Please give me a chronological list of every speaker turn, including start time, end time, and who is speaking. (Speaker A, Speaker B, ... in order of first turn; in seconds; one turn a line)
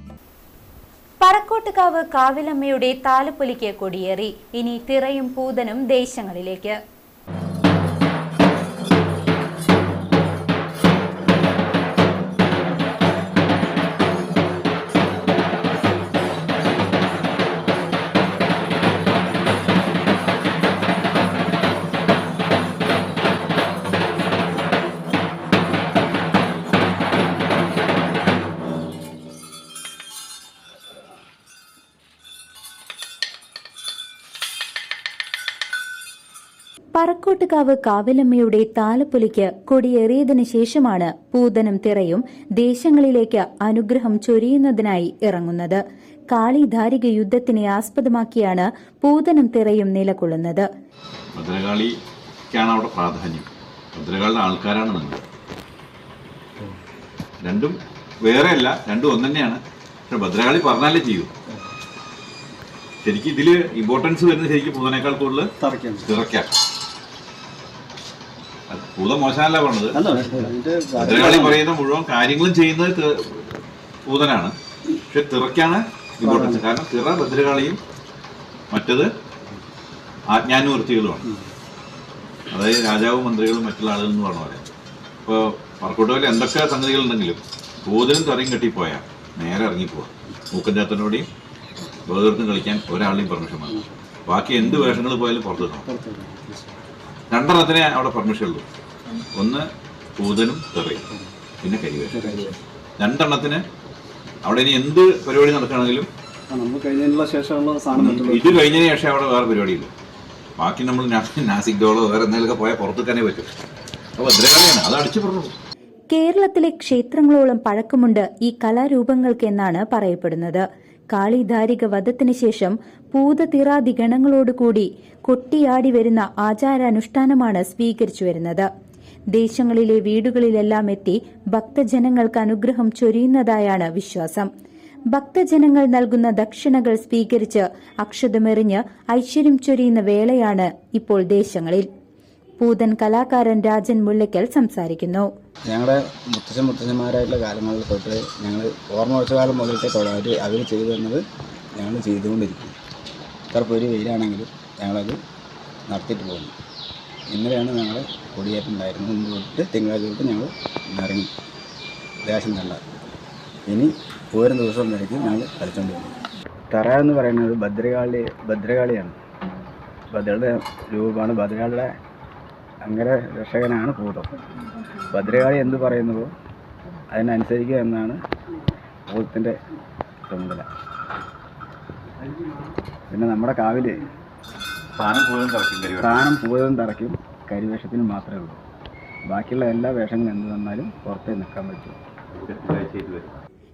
Speaker A: 1.2-6.8
Speaker A: 36.9-45.8
Speaker A: 46.3-50.7
Speaker B: 51.3-51.9
Speaker B: 52.5-55.2
Speaker B: 57.4-57.7
Speaker B: 58.2-61.3
Speaker B: 63.0-65.5
Speaker C: 65.6-66.1
Speaker B: 66.0-66.5
Speaker B: 68.7-70.0
Speaker C: 69.9-71.6
Speaker B: 71.0-74.5
Speaker B: 75.1-77.8
Speaker C: 76.2-76.6
Speaker B: 78.7-79.1
Speaker B: 80.3-81.3
Speaker B: 82.5-84.7
Speaker B: 85.2-91.3
Speaker B: 92.1-95.9
Speaker C: 95.8-96.7
Speaker B: 97.3-98.6
Speaker B: 99.3-99.7
Speaker B: 100.2-101.1
Speaker B: 101.6-103.6
Speaker C: 102.1-102.5
Speaker B: 104.4-106.1
Speaker C: 106.5-108.7
Speaker B: 107.9-109.9
Speaker B: 110.6-113.5
Speaker B: 114.2-115.5
Speaker A: 116.1-128.7
Speaker A: 129.3-134.5
Speaker A: 135.1-141.9
Speaker A: 142.6-145.3
Speaker D: 145.7-151.2
Speaker D: 151.8-152.8
Speaker D: 153.5-155.2
Speaker D: 155.9-156.5
Speaker D: 157.3-161.3
Speaker D: 162.2-162.8
Speaker D: 163.7-166.1
Speaker D: 166.7-169.2
Speaker D: 170.1-171.9
Speaker D: 172.8-174.3
Speaker D: 175.1-176.3
Speaker D: 177.1-178.2
Speaker D: 179.1-179.5
Speaker D: 180.3-180.7
Speaker D: 183.1-184.0
Speaker B: 185.0-186.3
Speaker D: 186.0-188.6
Speaker D: 189.3-192.0
Speaker B: 192.3-193.4